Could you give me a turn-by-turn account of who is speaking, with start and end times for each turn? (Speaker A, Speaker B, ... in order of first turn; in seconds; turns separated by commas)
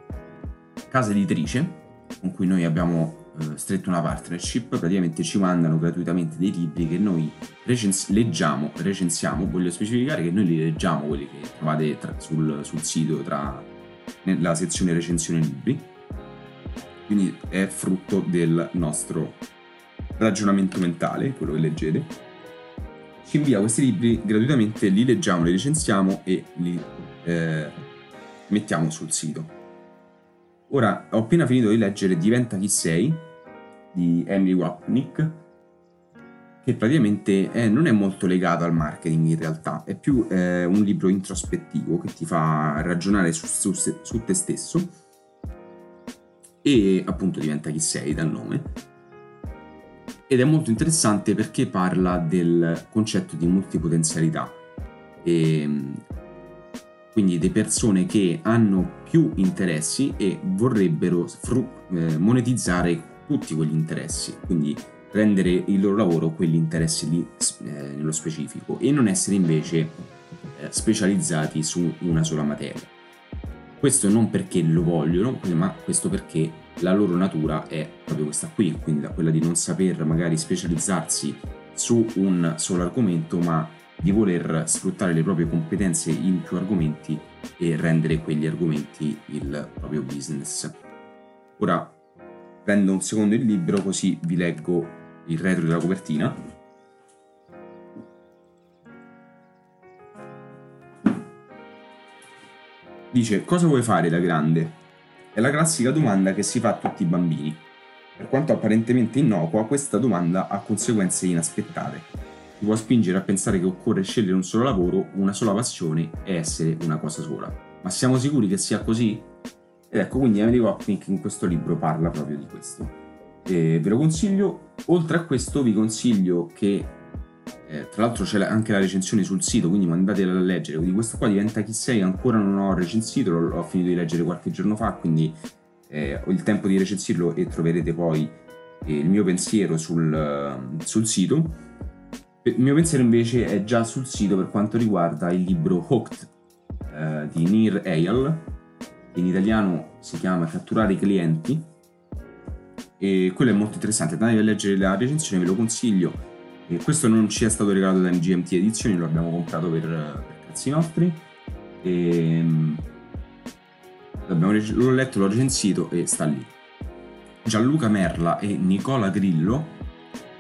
Speaker A: 0.9-13.7, Speaker A: 14.2-15.9, Speaker A: 17.1-19.4, Speaker A: 20.2-22.2, Speaker A: 23.2-27.8, Speaker A: 28.5-29.5, Speaker A: 30.7-33.3, Speaker A: 33.9-35.4, Speaker A: 36.6-45.0, Speaker A: 46.6-48.8, Speaker A: 50.3-54.6, Speaker A: 55.2-56.0, Speaker A: 57.1-72.9, Speaker A: 73.8-90.8, Speaker A: 91.6-92.0, Speaker A: 92.6-96.4, Speaker A: 103.1-104.8, Speaker A: 105.3-107.6, Speaker A: 108.2-119.3, Speaker A: 119.9-127.0, Speaker A: 127.7-135.4, Speaker A: 135.9-141.6, Speaker A: 142.4-146.3, Speaker A: 146.9-148.5, Speaker A: 149.1-151.7, Speaker A: 153.0-161.2, Speaker A: 161.8-162.9, Speaker A: 164.3-166.5, Speaker A: 167.4-169.8